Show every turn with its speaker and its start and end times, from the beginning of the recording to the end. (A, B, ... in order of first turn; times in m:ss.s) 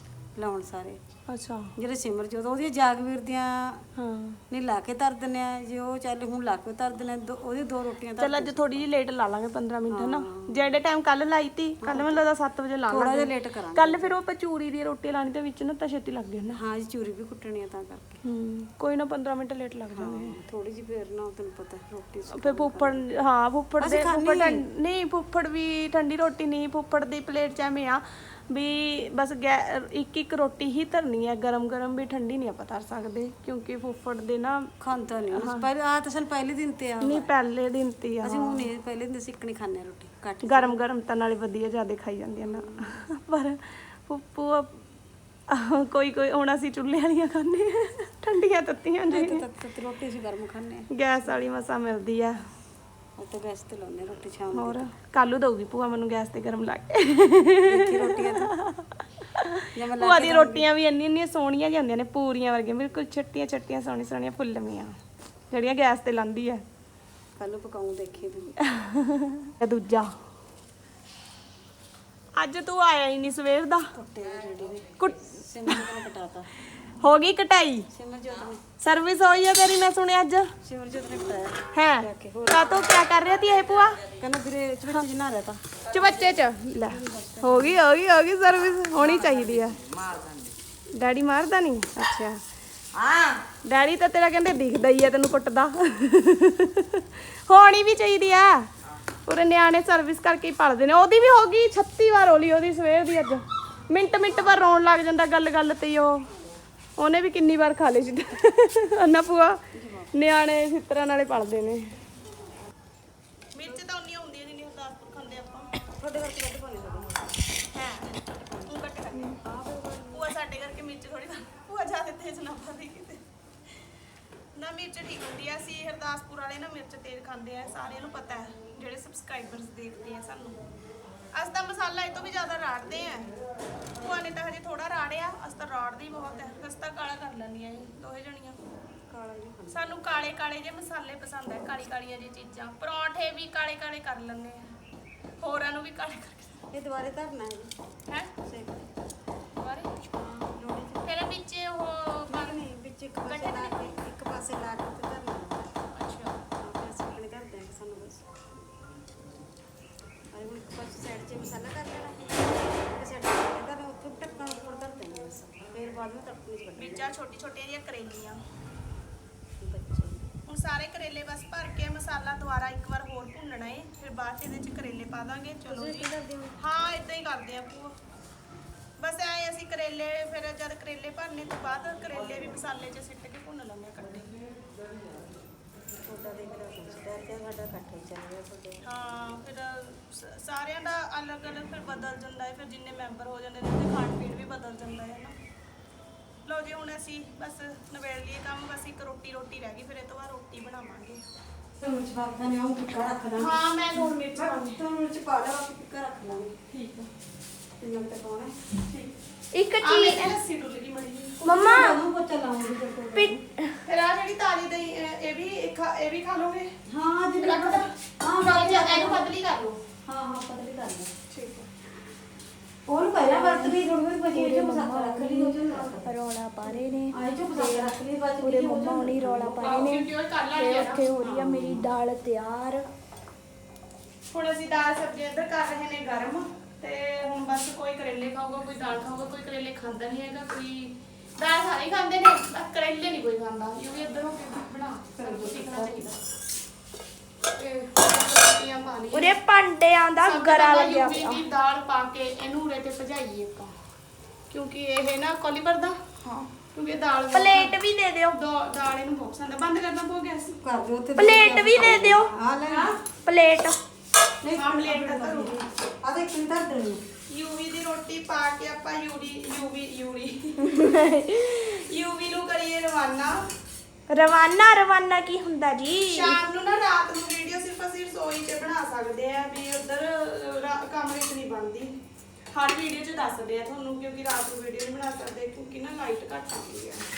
0:00.4-0:01.0 A
0:01.3-0:01.7 B
0:01.8-0:03.8 A
0:04.0-0:04.4 B
0:04.5-0:08.8 A
0:08.2-0:16.6 B
0:09.9-0:10.7 A
0:11.8-0:12.2 A
0:12.9-0:14.2 A
0:16.5-0:18.2 A
0:18.2-0:20.4 B
0:19.9-0:23.0 A
0:22.3-0:34.7 B
0:23.8-0:24.6 A
0:34.8-0:37.3 A
0:35.3-0:35.6 B
0:37.0-0:38.6 B
0:38.2-0:40.8 A
0:40.4-0:44.7 B
0:42.5-0:43.0 A
0:45.5-0:49.4 B
0:49.1-0:51.4 A
0:50.9-0:52.3 B
0:53.2-0:54.9 A
0:54.5-0:58.8 B
0:57.7-0:58.5 A
0:59.4-1:04.9 B
0:59.7-1:00.7 A
1:05.5-1:06.6 B
1:07.4-1:08.5 A
1:08.6-1:10.1 B
1:12.4-1:13.8 B
1:13.9-1:16.5 A
1:15.0-1:15.9 B
1:16.8-1:17.9 B
1:17.9-1:18.6 A
1:18.8-1:20.5 B
1:20.6-1:22.9 A
1:21.7-1:24.0 B
1:24.1-1:25.6 A
1:25.9-1:29.8 B
1:26.8-1:27.8 A
1:30.9-1:32.4 B
1:33.6-1:38.7 B
1:39.3-1:46.2 B
1:47.0-1:49.6 B
1:49.7-1:50.1 A
1:50.1-1:51.9 B
1:53.5-1:55.7 B
1:56.0-1:57.3 A
1:57.7-1:59.4 B
1:58.4-2:00.3 A
2:00.1-2:03.2 B
2:04.5-2:10.6 B
2:11.3-2:13.3 B
2:14.0-2:18.6 B
2:19.1-2:20.0 A
2:19.7-2:24.7 B
2:25.4-2:26.6 B
2:26.7-2:27.7 A
2:28.4-2:28.8 A
2:29.6-2:30.0 B
2:30.1-2:31.2 A
2:31.0-2:32.7 B
2:32.3-2:35.7 A
2:33.2-2:33.9 B
2:35.9-2:36.4 B
2:36.6-2:38.4 A
2:40.3-2:47.1 A
2:46.8-2:48.4 B
2:49.6-2:50.2 A
2:50.5-2:57.9 B
2:55.7-2:56.6 A
2:59.0-3:04.3 B
3:06.0-3:08.8 A
3:08.8-3:15.3 B
3:16.4-3:21.2 B
3:21.8-3:26.6 A
3:23.4-3:24.8 B
3:26.7-3:27.1 B
3:27.8-3:28.6 A
3:29.5-3:30.4 C
3:29.8-3:31.6 B
3:31.4-3:32.0 C
3:31.5-3:33.4 A
3:33.1-3:33.8 C
3:33.8-3:36.7 B
3:36.9-3:39.3 A
3:37.4-3:39.8 B
3:40.0-3:41.1 A
3:41.3-3:41.7 B
3:42.9-3:49.8 A
3:43.2-3:43.8 C
3:44.3-3:52.8 C
3:49.6-3:51.1 B
3:51.2-3:51.9 A
3:54.3-4:06.2 B
4:05.1-4:06.0 A
4:07.6-4:09.4 B
4:09.1-4:11.4 C
4:10.2-4:13.7 B
4:14.5-4:16.0 B
4:16.7-4:17.7 B
4:17.3-4:18.4 C
4:18.3-4:20.5 B
4:20.5-4:23.0 A
4:21.2-4:22.3 C
4:22.7-4:22.9 B
4:23.2-4:23.8 C
4:24.4-4:27.0 A
4:24.6-4:25.6 B
4:27.3-4:30.9 B
4:30.6-4:31.6 C
4:31.4-4:33.4 B
4:34.1-4:36.4 C
4:36.0-4:41.9 B
4:42.5-4:47.0 B